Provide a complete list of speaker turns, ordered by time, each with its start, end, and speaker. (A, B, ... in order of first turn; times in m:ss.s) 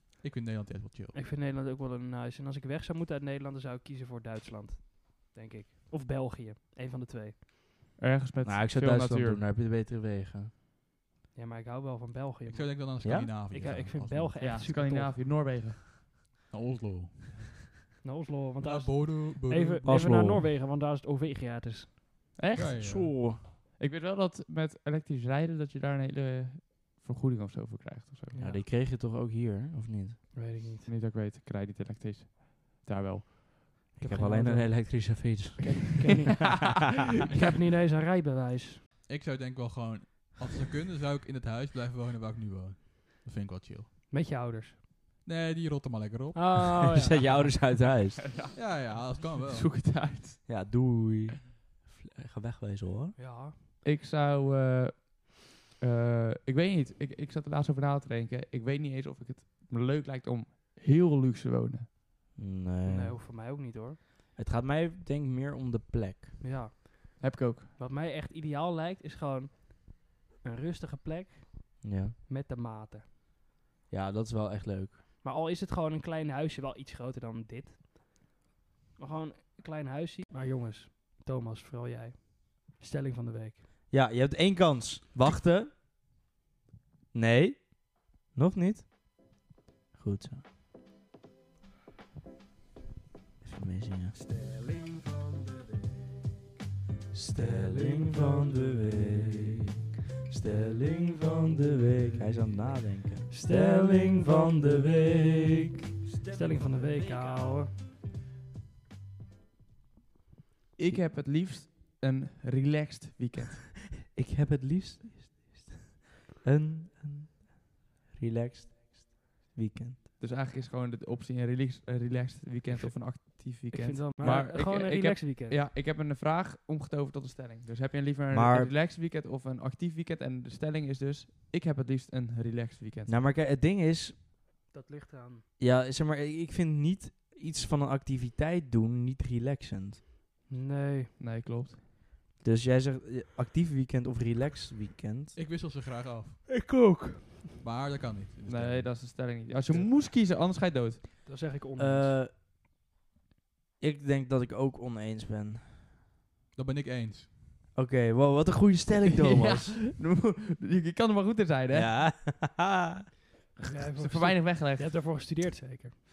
0:00.2-0:01.2 A
0:01.1-0:07.4 B
0:08.0-0:09.4 C
0:08.4-0:10.5 D
0:11.4-0:12.8 B
0:12.5-0:14.4 A
0:13.0-0:13.3 D
0:13.5-0:15.2 B
0:14.4-0:15.8 C
0:16.5-0:17.7 A
0:18.0-0:21.9 B
0:18.6-0:20.3 A
0:19.8-0:20.5 D
0:22.4-0:23.0 C
0:22.6-0:23.1 A
0:22.8-0:23.4 D
0:23.8-0:28.4 C
0:28.3-0:28.6 B
0:28.4-0:30.3 D
0:30.4-0:30.9 B
0:30.9-0:34.0 C
0:34.0-0:36.3 D
0:34.0-0:34.8 B
0:35.6-0:38.8 B
0:39.1-0:43.9 A
0:44.1-0:44.8 B
0:45.2-0:46.8 A
0:46.4-0:47.5 B
0:46.9-0:48.2 D
0:48.3-0:50.5 C
0:48.6-0:49.7 A
0:50.5-0:53.2 D
0:53.2-0:53.6 B
0:53.8-1:01.9 C
1:02.4-1:03.2 D
1:02.8-1:04.0 B
1:04.4-1:06.4 D
1:06.4-1:13.0 B
1:07.2-1:07.7 C
1:11.8-1:12.2 D
1:13.9-1:15.0 D
1:15.2-1:18.0 B
1:19.0-1:23.6 B
1:23.9-1:25.7 D
1:27.1-1:29.4 D
1:30.0-1:30.4 D
1:33.4-1:34.2 D
1:37.1-1:39.6 D
1:40.3-1:45.8 D
1:43.3-1:44.3 B
1:46.2-1:47.7 B
1:50.8-1:53.8 C
1:54.1-1:55.9 D
1:56.4-2:00.0 D
2:00.2-2:13.1 C
2:03.7-2:05.6 B
2:08.3-2:08.7 D
2:13.1-2:14.2 D
2:14.7-2:15.4 B
2:15.6-2:20.0 D
2:20.5-2:21.1 B
2:21.2-2:21.8 C
2:22.4-2:25.4 D
2:25.4-2:26.4 A
2:26.5-2:27.4 B
2:27.6-2:29.0 A
2:28.5-2:31.0 C
2:31.3-2:32.2 B
2:31.8-2:32.3 D
2:33.8-2:35.7 D
2:36.6-2:37.3 A
2:37.8-2:39.8 D
2:39.1-2:41.9 C
2:41.7-2:43.0 D
2:43.6-2:46.0 B
2:44.0-2:45.0 C